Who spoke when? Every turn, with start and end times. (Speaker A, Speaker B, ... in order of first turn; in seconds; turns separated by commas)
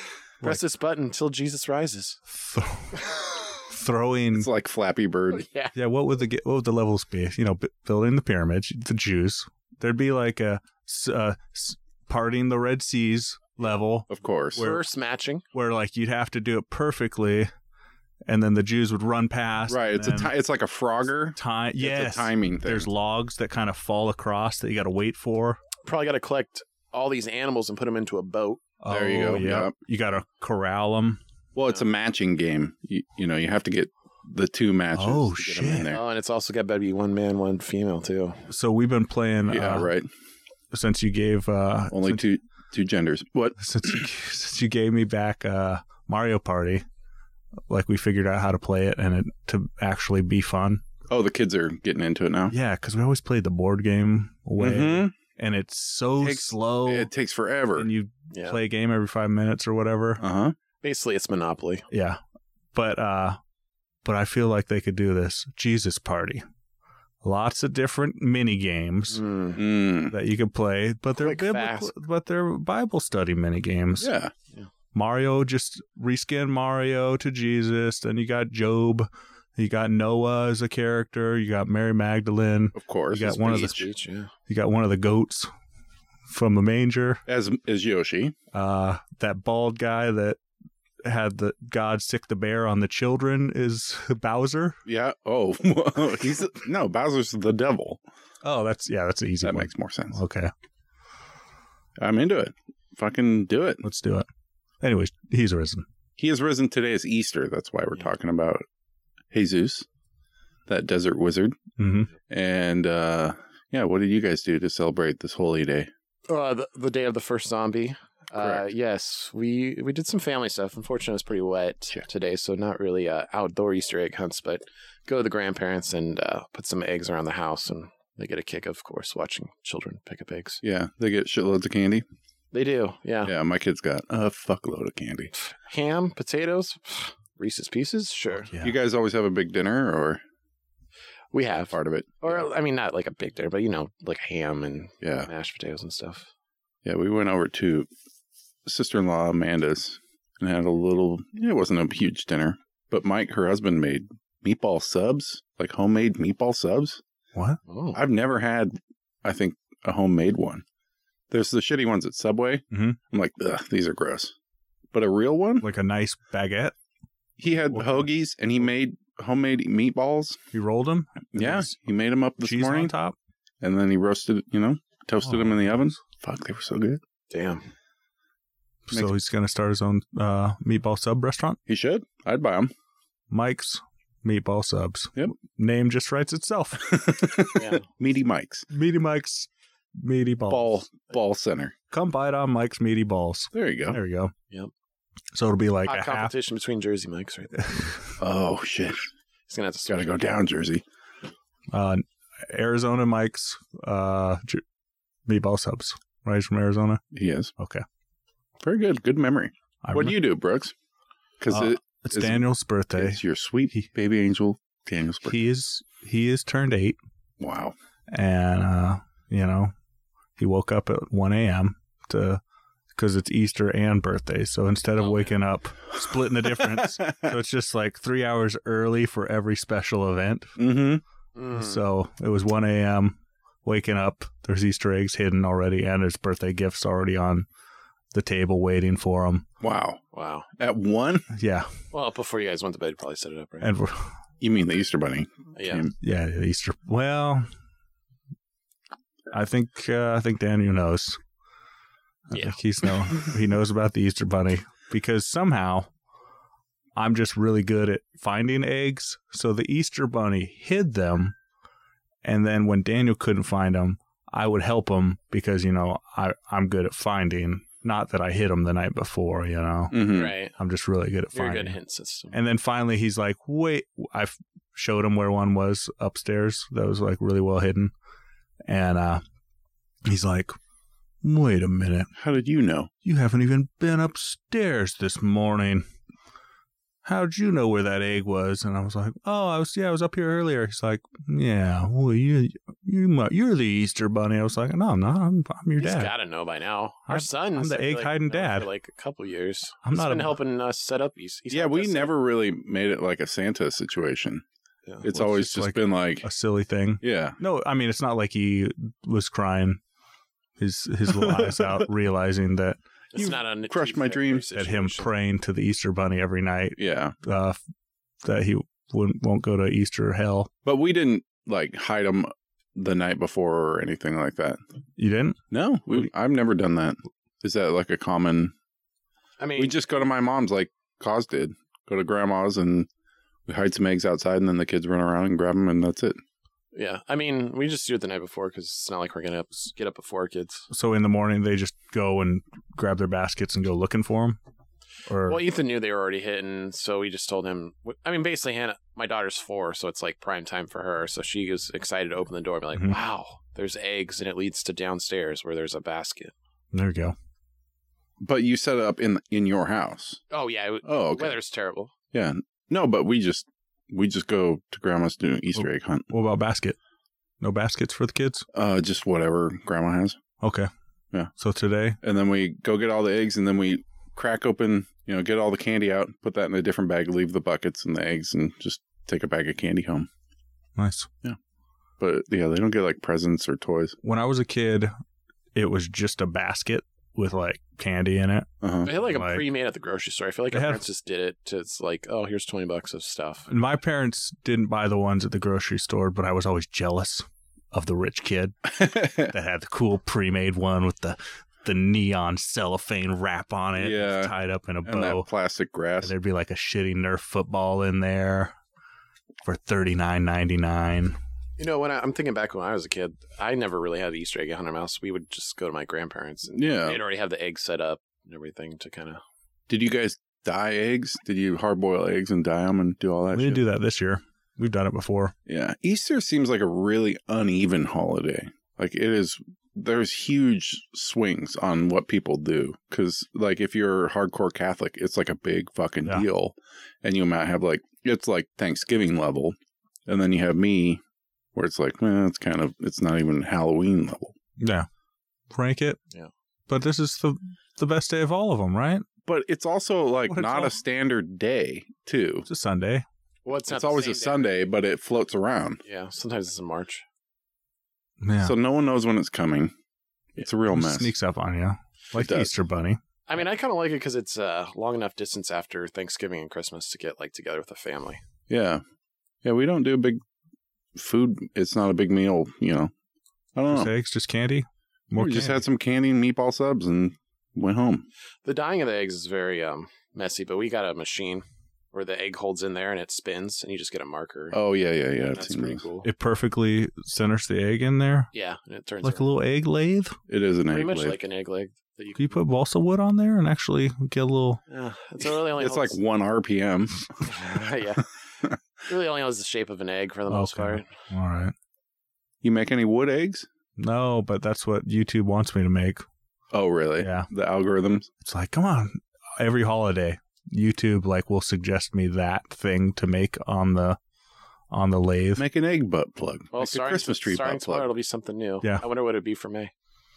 Speaker A: 0.4-2.2, Speaker B: 2.3-4.5, Speaker C: 4.3-5.4, Speaker A: 5.3-5.7, Speaker B: 5.7-14.8, Speaker C: 14.1-14.7, Speaker A: 14.6-15.4, Speaker B: 15.5-17.5, Speaker B: 18.3-20.3, Speaker C: 19.7-22.9, Speaker B: 21.4-25.6, Speaker A: 25.8-28.6, Speaker B: 28.8-31.2, Speaker C: 28.9-29.7, Speaker C: 31.5-36.0, Speaker B: 34.9-35.9, Speaker A: 35.9-38.4, Speaker B: 38.5-39.9, Speaker C: 39.5-40.1, Speaker B: 40.7-42.2, Speaker C: 41.9-44.0, Speaker B: 43.6-46.8, Speaker B: 47.7-50.8, Speaker C: 51.1-52.5, Speaker B: 52.5-57.1, Speaker C: 54.6-55.1, Speaker C: 56.2-57.9, Speaker B: 57.8-60.2, Speaker A: 58.3-58.6, Speaker C: 60.2-60.5, Speaker A: 60.8-61.9, Speaker B: 61.9-62.2, Speaker B: 62.7-63.4, Speaker B: 64.0-66.4, Speaker B: 67.2-69.2, Speaker A: 69.1-69.6, Speaker C: 69.5-70.2, Speaker B: 70.1-74.1, Speaker A: 71.2-71.9, Speaker C: 74.0-74.3, Speaker B: 74.9-83.8, Speaker C: 82.7-83.8, Speaker A: 83.2-84.3, Speaker B: 84.5-85.5, Speaker B: 86.3-87.2, Speaker C: 87.2-88.3, Speaker B: 88.5-90.4, Speaker B: 91.0-94.8, Speaker C: 94.8-98.0, Speaker B: 98.4-100.5, Speaker C: 99.4-100.2, Speaker C: 102.0-103.8, Speaker B: 103.8-104.2, Speaker B: 104.8-105.8, Speaker C: 106.2-108.6, Speaker C: 109.3-109.8, Speaker C: 110.7-111.6, Speaker B: 111.8-112.1, Speaker C: 112.3-115.9, Speaker A: 116.3-130.6, Speaker C: 118.3-118.7, Speaker C: 130.6-132.0, Speaker A: 132.5-133.3, Speaker C: 133.2-135.3, Speaker A: 135.4-138.5, Speaker B: 138.4-138.7, Speaker C: 138.6-140.2, Speaker A: 141.3-146.3, Speaker C: 141.7-142.4, Speaker C: 145.0-145.3, Speaker C: 146.8-147.9, Speaker C: 148.7-157.0, Speaker B: 157.3-157.6, Speaker A: 157.7-158.0, Speaker C: 157.9-160.6, Speaker C: 161.3-164.3, Speaker B: 162.7-163.0, Speaker C: 164.9-165.7, Speaker B: 165.6-166.7, Speaker C: 167.4-170.4, Speaker B: 167.7-168.1, Speaker B: 170.5-171.8, Speaker C: 171.3-172.9, Speaker B: 172.4-173.2, Speaker C: 173.6-177.0, Speaker B: 175.2-176.0, Speaker A: 177.3-177.6, Speaker B: 178.9-181.6, Speaker C: 181.7-182.7, Speaker B: 183.3-187.0, Speaker C: 186.8-188.7, Speaker A: 187.5-187.9, Speaker B: 188.7-189.5, Speaker B: 190.0-190.8, Speaker C: 190.5-191.7, Speaker B: 191.9-194.3, Speaker C: 193.5-194.0, Speaker B: 195.3-196.3, Speaker A: 195.8-197.9, Speaker B: 197.6-197.9, Speaker C: 198.2-199.0, Speaker A: 199.5-200.2, Speaker C: 199.8-200.8, Speaker B: 201.7-204.6, Speaker B: 205.2-207.0, Speaker C: 207.1-207.5, Speaker B: 207.6-207.8, Speaker C: 208.6-210.7, Speaker B: 209.8-210.2, Speaker C: 211.4-212.4, Speaker B: 211.5-213.2, Speaker C: 212.9-215.4, Speaker B: 215.2-217.0, Speaker C: 217.4-217.7, Speaker B: 218.1-219.7, Speaker B: 220.4-222.4, Speaker B: 222.9-230.6, Speaker A: 225.0-225.4, Speaker C: 226.1-227.3, Speaker C: 230.6-231.0, Speaker A: 231.3-231.8, Speaker B: 231.5-237.4, Speaker B: 238.1-239.4, Speaker C: 239.6-240.0, Speaker A: 240.1-240.5, Speaker C: 240.6-241.3, Speaker B: 241.3-241.7, Speaker A: 241.9-243.7, Speaker B: 243.6-244.1, Speaker C: 244.4-245.9, Speaker A: 245.6-245.9, Speaker B: 246.0-247.5, Speaker B: 249.3-251.2, Speaker B: 252.3-255.9, Speaker A: 252.3-253.3, Speaker B: 257.0-261.3, Speaker B: 262.2-271.8, Speaker C: 269.9-270.3, Speaker A: 270.1-270.6, Speaker A: 271.3-272.3, Speaker B: 272.3-277.9, Speaker B: 278.7-279.2, Speaker B: 280.0-280.6, Speaker B: 281.2-282.1, Speaker C: 282.1-282.9, Speaker B: 283.0-285.9, Speaker B: 287.0-296.1, Speaker A: 295.8-302.1, Speaker B: 297.1-298.7, Speaker B: 299.8-300.4, Speaker C: 301.5-304.4, Speaker C: 305.0-306.3, Speaker B: 305.1-309.8, Speaker C: 307.0-307.4, Speaker B: 310.6-312.8, Speaker C: 311.1-311.9, Speaker A: 313.1-315.1, Speaker C: 313.1-314.5, Speaker B: 314.5-317.6, Speaker C: 316.8-317.1, Speaker B: 318.2-320.5, Speaker C: 320.6-324.6, Speaker B: 325.0-325.4, Speaker C: 325.5-328.5, Speaker A: 329.4-329.8, Speaker C: 329.6-332.9, Speaker C: 333.5-336.2, Speaker A: 336.7-340.7, Speaker B: 340.7-344.4, Speaker B: 345.1-345.4, Speaker A: 345.2-356.3, Speaker B: 356.7-357.1, Speaker C: 358.2-360.2, Speaker A: 360.3-361.9, Speaker C: 360.8-361.4, Speaker C: 362.1-366.1, Speaker B: 365.6-366.8, Speaker B: 367.4-368.5, Speaker C: 368.5-370.2, Speaker B: 370.4-370.7, Speaker B: 371.3-372.0, Speaker C: 372.0-380.1, Speaker B: 380.8-381.1, Speaker C: 382.0-384.0, Speaker B: 384.0-384.9, Speaker B: 385.5-389.4, Speaker C: 388.6-388.9, Speaker A: 388.8-393.5, Speaker B: 390.5-390.8, Speaker B: 393.5-405.3, Speaker C: 398.7-399.3, Speaker C: 403.8-404.3, Speaker C: 404.8-406.1, Speaker B: 406.0-408.5, Speaker B: 409.4-411.2, Speaker A: 411.6-419.2, Speaker C: 416.5-417.0, Speaker C: 419.7-423.6, Speaker B: 423.3-425.3, Speaker C: 425.5-439.5, Speaker C: 440.1-441.0, Speaker C: 441.5-444.3, Speaker B: 444.6-444.9, Speaker B: 445.5-446.0, Speaker B: 446.7-449.1, Speaker C: 449.2-452.5, Speaker B: 450.3-450.8, Speaker B: 452.4-453.0, Speaker A: 453.4-454.5, Speaker C: 453.7-455.8, Speaker A: 455.9-457.0, Speaker B: 458.2-458.5, Speaker C: 458.4-459.7, Speaker C: 460.4-461.1, Speaker B: 460.7-463.0, Speaker C: 462.1-462.5, Speaker A: 463.3-468.2, Speaker C: 468.5-468.8, Speaker C: 469.4-470.2, Speaker C: 470.9-472.9, Speaker C: 473.5-473.9, Speaker B: 473.7-475.6, Speaker C: 475.1-478.0, Speaker A: 478.4-484.6, Speaker C: 484.5-485.8, Speaker A: 485.2-486.1, Speaker B: 486.0-488.3, Speaker A: 488.3-489.3, Speaker B: 489.0-490.1, Speaker C: 490.3-491.2, Speaker A: 490.7-492.3, Speaker B: 492.1-494.6, Speaker A: 494.7-496.0, Speaker C: 495.5-497.1, Speaker A: 497.2-498.1, Speaker A: 498.9-500.9, Speaker B: 500.3-501.5, Speaker C: 502.4-503.5, Speaker B: 503.8-506.0, Speaker C: 506.5-508.1, Speaker B: 507.0-507.3, Speaker B: 508.2-514.0, Speaker B: 514.7-515.4, Speaker C: 515.4-517.9, Speaker A: 516.5-519.7